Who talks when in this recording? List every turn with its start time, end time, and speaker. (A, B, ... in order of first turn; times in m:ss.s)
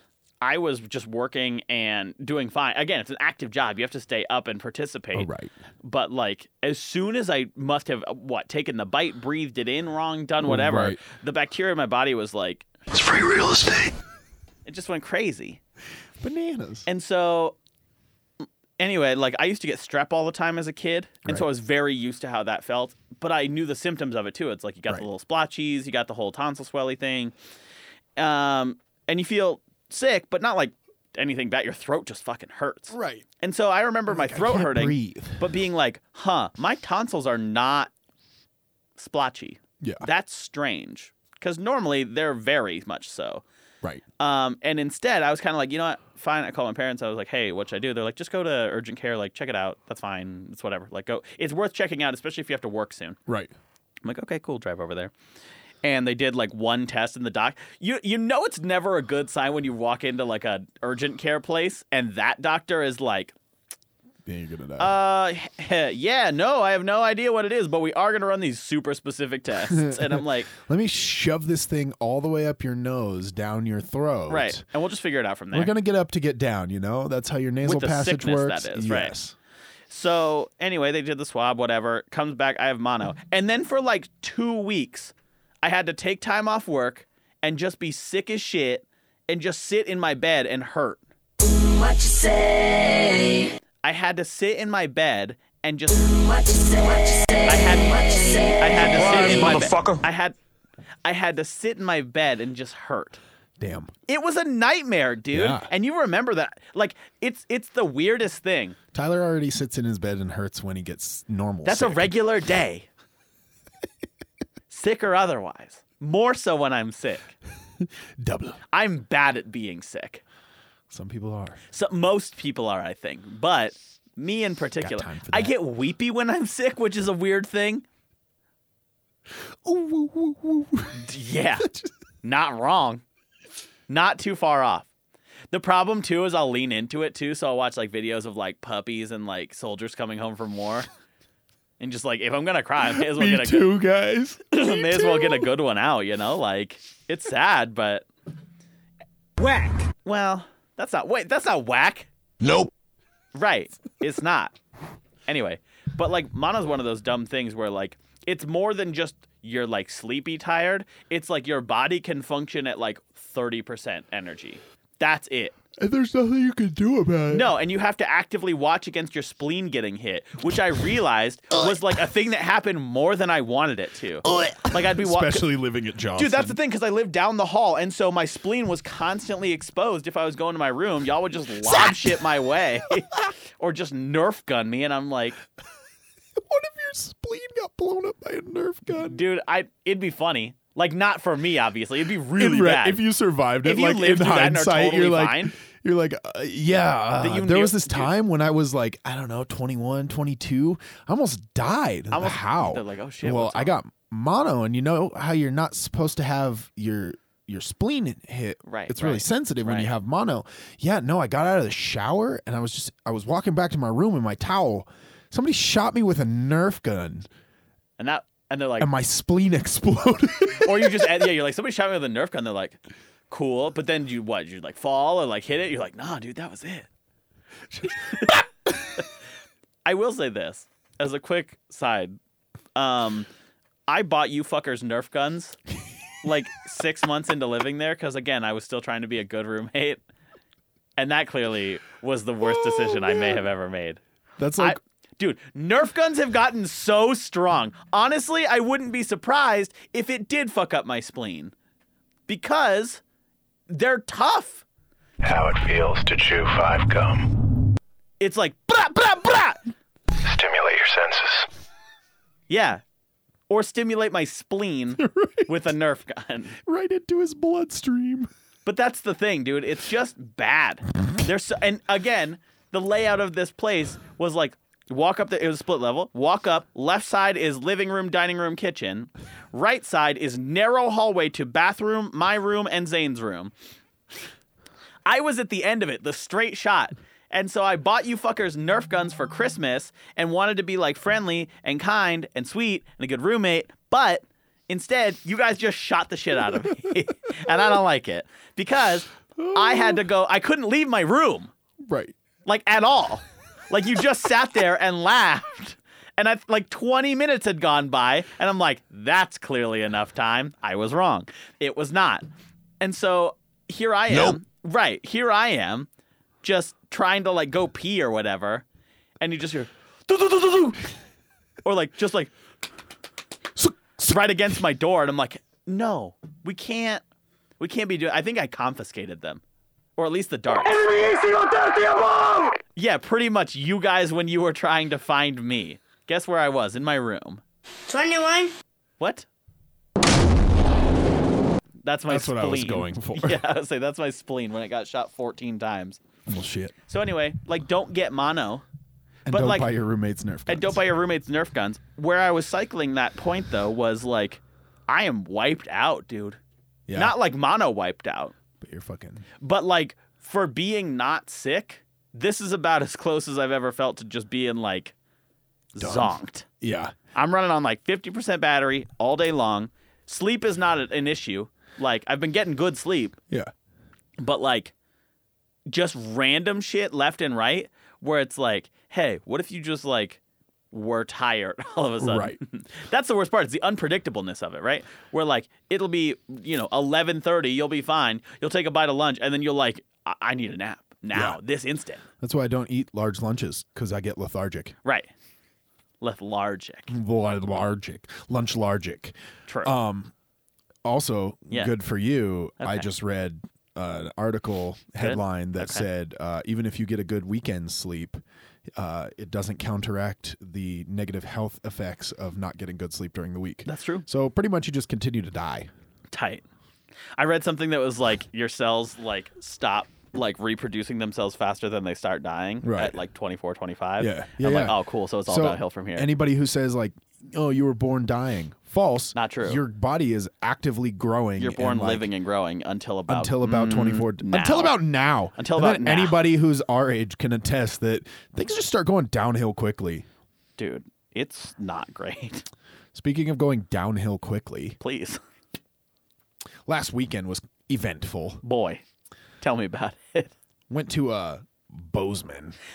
0:00.4-0:05.3 A
0:05.1-0:05.5 B
0:05.8-0:12.7 A
0:10.4-0:11.0 B
0:12.9-0:13.9 B
0:14.6-0:15.6 A
0:16.2-0:16.8 B
0:16.8-0:17.6 A
0:18.8-0:27.3 A
0:28.2-0:37.9 A
0:32.9-0:33.2 B
0:34.1-0:35.4 B
0:39.0-0:43.4 A
0:39.8-0:40.0 B
0:44.2-0:53.2 A
0:53.3-0:53.5 B
0:54.0-0:55.1 A
0:55.8-1:03.3 A
1:04.2-1:05.0 B
1:04.8-1:10.5 A
1:09.6-1:14.6 B
1:14.3-1:15.7 A
1:15.5-1:19.3 B
1:17.6-1:19.1 A
1:19.9-1:31.0 A
1:31.7-1:33.4 C
1:33.8-1:36.5 A
1:36.5-1:37.4 C
1:37.4-1:40.4 A
1:41.0-1:43.2 A
1:43.6-1:43.9 B
1:44.1-1:48.8 A
1:45.3-1:45.7 B
1:48.9-1:52.1 B
1:51.6-1:52.9 A
1:54.7-1:57.3 A
1:58.2-1:58.6 B
1:58.7-2:00.2 A
2:00.9-2:01.6 B
2:01.7-2:07.8 A
2:04.8-2:05.5 B
2:09.4-2:11.0 B
2:11.0-2:11.7 A
2:11.6-2:11.9 B
2:12.2-2:13.0 A
2:13.9-2:14.9 A
2:15.5-2:20.9 A
2:21.8-2:23.7 A
2:22.8-2:25.5 B
2:24.5-2:28.1 A
2:29.4-2:32.1 A
2:32.4-2:32.7 B
2:33.3-2:34.5 A
2:35.3-2:45.6 A
2:45.8-2:47.5 B
2:47.3-2:55.5 A
2:54.2-2:56.6 B
2:56.2-3:05.4 A
3:01.6-3:02.2 B
3:06.4-3:09.2 B
3:09.0-3:13.0 A
3:12.4-3:37.3 B
3:13.6-3:15.5 A
3:17.2-3:18.1 A
3:22.1-3:23.7 A
3:28.6-3:29.9 A
3:38.0-3:38.9 A
3:38.8-3:41.3 B
3:40.6-3:42.8 A
3:43.3-3:46.9 A
3:47.7-3:48.4 B
3:47.9-3:48.4 A
3:49.8-3:52.2 A
3:52.7-3:53.3 A
3:53.9-3:55.6 A
3:56.2-4:00.0 A
4:01.0-4:04.0 A
4:02.5-4:03.4 B
4:04.4-4:04.8 B
4:04.6-4:11.5 A
4:12.3-4:13.0 A
4:13.7-4:14.6 A
4:15.2-4:17.2 D
4:18.2-4:19.6 A
4:20.3-4:21.4 D
4:22.5-4:22.8 A
4:23.5-4:26.6 A
4:25.0-4:25.6 B
4:26.6-4:28.3 B
4:28.6-4:43.5 A
4:45.0-5:01.5 A
4:59.4-5:00.0 B
5:01.8-5:02.1 B
5:02.4-5:12.2 A
5:12.8-5:15.9 A
5:14.1-5:14.4 B
5:16.4-5:18.6 A
5:19.2-5:20.8 A
5:21.6-5:22.3 A
5:23.6-5:24.1 B
5:24.0-5:27.0 A
5:27.6-5:29.4 A
5:30.0-5:30.9 A
5:30.8-5:32.5 C
5:32.7-5:37.4 A
5:37.9-5:38.5 C
5:39.0-5:39.3 A
5:41.8-5:46.0 A
5:42.1-5:43.4 B
5:46.3-5:46.7 B
5:46.9-5:48.6 A
5:49.3-5:49.7 A
5:49.3-5:50.8 B
5:50.5-5:56.4 A
5:56.9-5:57.1 B
5:56.9-5:58.3 A
5:58.6-5:59.2 B
5:59.4-6:04.9 A
6:05.7-6:06.4 A
6:05.8-6:06.9 B
6:07.1-6:13.2 A
6:14.2-6:14.7 A
6:15.7-6:20.2 A
6:20.7-6:32.0 A
6:22.0-6:22.4 B
6:31.1-6:31.4 B
6:32.2-6:34.7 B
6:34.8-6:35.1 A
6:36.0-6:36.9 A
6:36.9-6:40.1 B
6:39.5-6:39.7 A
6:40.8-6:48.2 B
6:42.6-6:42.9 A
6:45.0-6:45.8 A
6:48.8-6:55.7 B
6:53.6-6:54.0 A
6:56.1-6:56.4 A
6:57.2-7:06.1 A
7:02.6-7:03.0 B
7:04.0-7:12.1 B
7:09.1-7:09.6 A
7:11.4-7:14.8 A
7:13.1-7:20.0 B
7:15.4-7:16.2 A
7:20.6-7:22.4 A
7:22.9-7:24.8 B
7:24.8-7:25.2 A
7:26.6-7:28.4 B
7:28.4-7:28.8 A
7:29.4-7:30.3 A
7:30.7-7:32.6 B